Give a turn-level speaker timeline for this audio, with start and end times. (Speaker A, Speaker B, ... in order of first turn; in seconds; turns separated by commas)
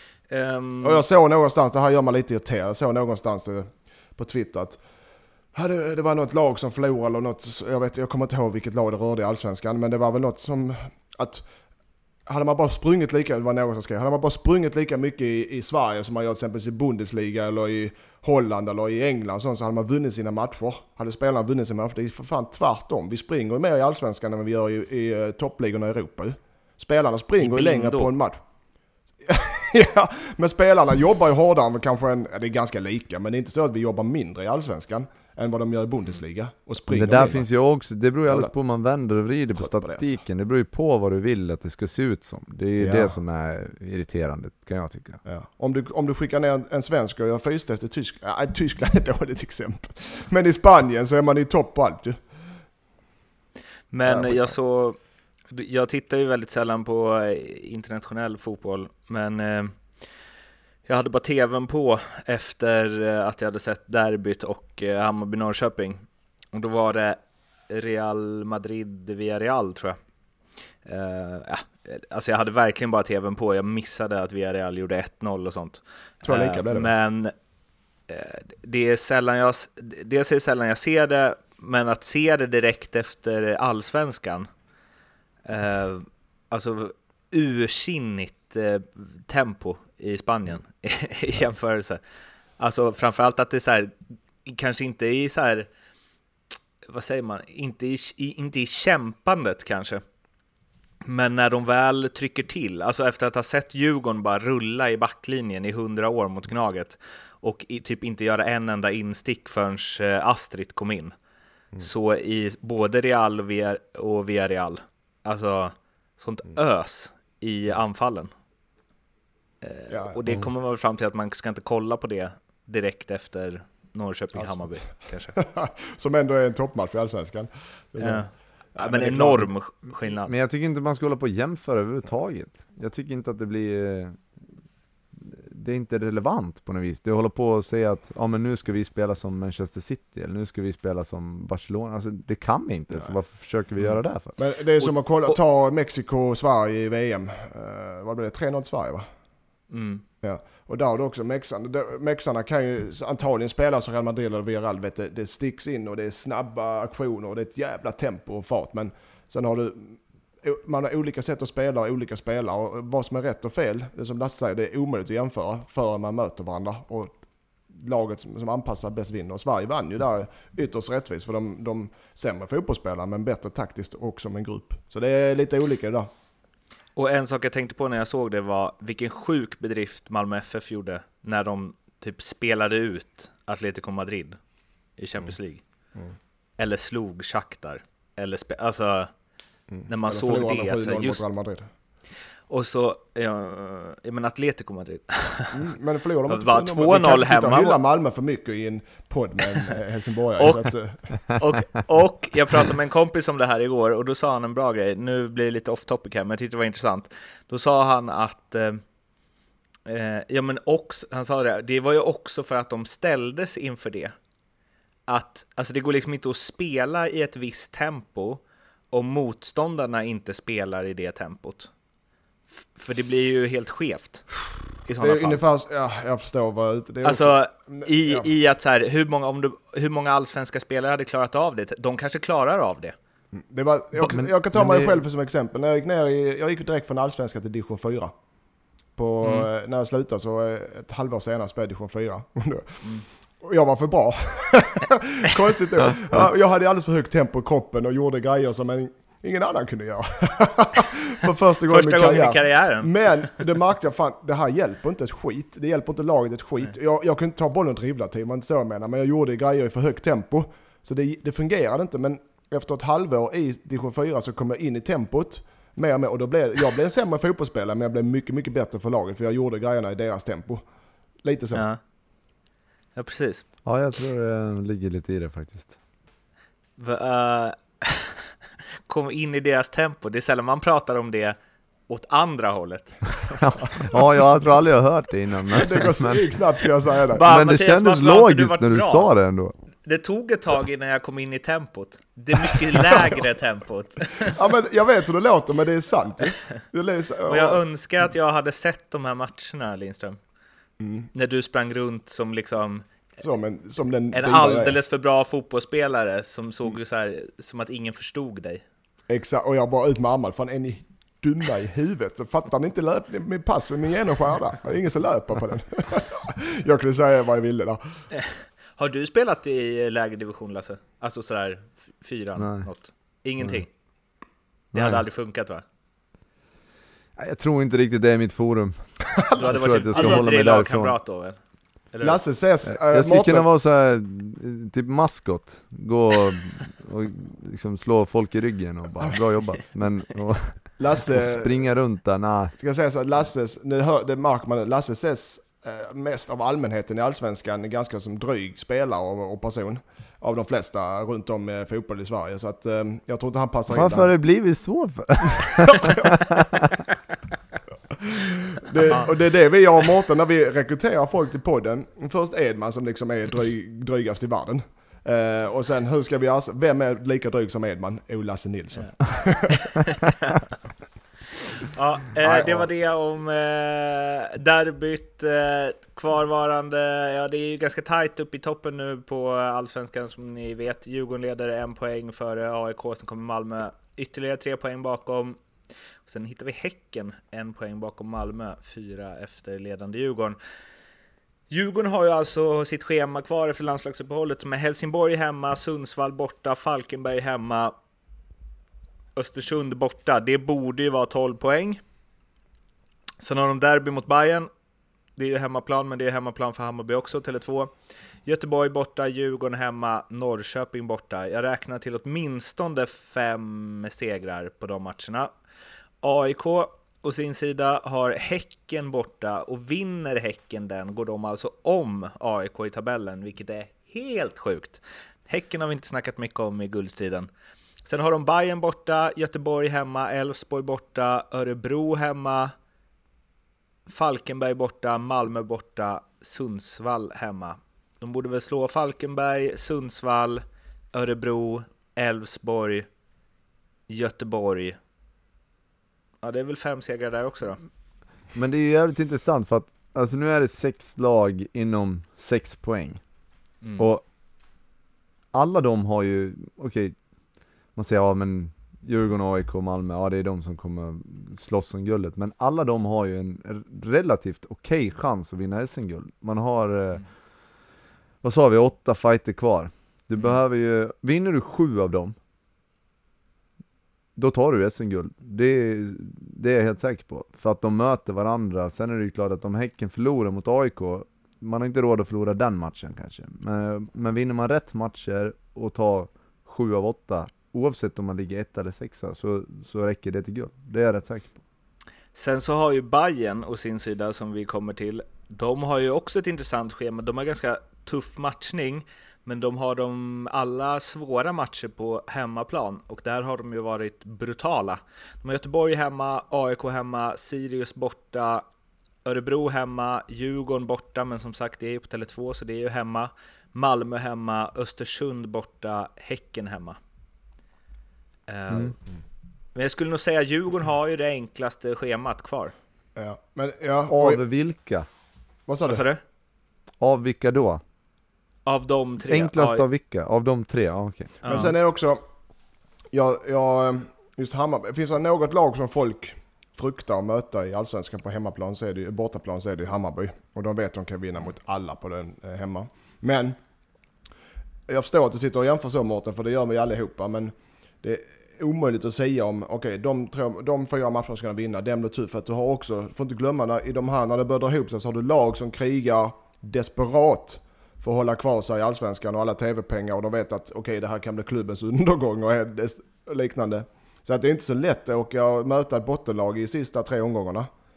Speaker A: 0.3-1.0, Speaker B: 0.8-4.8, Speaker B: 5.5-11.4, Speaker B: 12.2-28.4, Speaker A: 27.4-28.1, Speaker B: 29.2-37.4, Speaker C: 36.9-45.2, Speaker B: 39.6-40.2, Speaker B: 42.8-43.1, Speaker B: 45.2-52.2, Speaker A: 53.9-55.0, Speaker B: 54.0-54.5, Speaker A: 55.5-59.8, Speaker A: 60.9-70.0, Speaker A: 70.8-77.3, Speaker B: 76.2-76.9, Speaker A: 78.1-84.5, Speaker A: 85.5-92.0, Speaker A: 92.6-93.9, Speaker A: 94.4-95.7, Speaker A: 96.9-100.0, Speaker A: 101.0-111.1, Speaker A: 111.8-118.3, Speaker A: 119.6-125.4, Speaker B: 119.9-120.1, Speaker B: 125.4-129.5, Speaker A: 128.0-130.3, Speaker C: 130.1-134.3, Speaker C: 135.1-144.4, Speaker B: 144.4-149.1, Speaker A: 149.7-150.0, Speaker B: 150.2-167.2, Speaker B: 167.7-176.1, Speaker A: 176.9-184.4, Speaker A: 185.0-185.6, Speaker A: 186.6-189.1, Speaker B: 189.7-191.7, Speaker A: 189.9-191.2, Speaker A: 192.5-195.6, Speaker B: 195.5-201.0, Speaker A: 196.3-197.8, Speaker A: 200.4-200.7, Speaker A: 201.3-208.8, Speaker A: 209.9-214.1, Speaker A: 215.1-221.7, Speaker A: 222.7-225.4, Speaker B: 225.0-228.3, Speaker A: 227.0-232.9, Speaker B: 233.3-238.1, Speaker C: 234.0-235.0, Speaker B: 238.9-270.6, Speaker A: 239.2-239.5, Speaker A: 251.7-253.3, Speaker B: 271.2-271.6, Speaker A: 272.9-273.4, Speaker C: 273.6-275.8, Speaker A: 276.8-278.3, Speaker A: 278.9-281.4, Speaker A: 281.9-283.4, Speaker C: 283.4-286.2, Speaker B: 285.5-287.2, Speaker A: 287.1-289.1, Speaker C: 287.2-289.5, Speaker A: 289.8-294.4, Speaker B: 294.3-297.6, Speaker A: 297.3-300.2, Speaker B: 300.8-301.1, Speaker A: 301.1-302.9, Speaker B: 303.2-304.8, Speaker A: 304.1-308.6, Speaker B: 309.1-318.0, Speaker A: 318.1-323.7, Speaker C: 322.4-322.7, Speaker C: 324.7-325.0, Speaker A: 324.7-325.6, Speaker C: 327.1-331.0, Speaker B: 329.2-330.2, Speaker A: 329.4-331.4, Speaker A: 331.9-332.2, Speaker B: 332.0-333.5, Speaker C: 332.6-342.5, Speaker B: 340.8-341.6, Speaker B: 342.6-354.1, Speaker C: 353.7-356.6, Speaker B: 355.6-356.1, Speaker B: 358.1-369.8, Speaker A: 371.7-385.4, Speaker C: 372.2-372.7, Speaker A: 386.1-390.4, Speaker A: 391.5-397.7, Speaker A: 399.1-401.8, Speaker A: 403.2-404.5, Speaker A: 405.2-407.7, Speaker A: 408.2-415.3, Speaker A: 416.0-427.3, Speaker A: 427.9-432.5, Speaker A: 433.9-442.9, Speaker A: 443.9-444.8, Speaker A: 446.2-447.6, Speaker C: 448.3-453.0, Speaker A: 453.6-453.9, Speaker C: 453.8-454.0, Speaker C: 455.3-456.9, Speaker C: 457.7-467.1, Speaker C: 468.2-472.1, Speaker C: 474.1-491.4, Speaker A: 492.1-508.4, Speaker A: 509.0-516.8, Speaker A: 518.3-518.7, Speaker A: 519.5-522.5, Speaker B: 523.0-524.2, Speaker C: 523.9-524.9, Speaker B: 525.5-525.9, Speaker A: 525.6-526.0, Speaker C: 526.8-527.6, Speaker A: 528.5-529.6, Speaker C: 529.1-531.2, Speaker B: 531.2-532.0, Speaker A: 531.2-531.5, Speaker B: 532.9-543.4, Speaker B: 544.7-567.5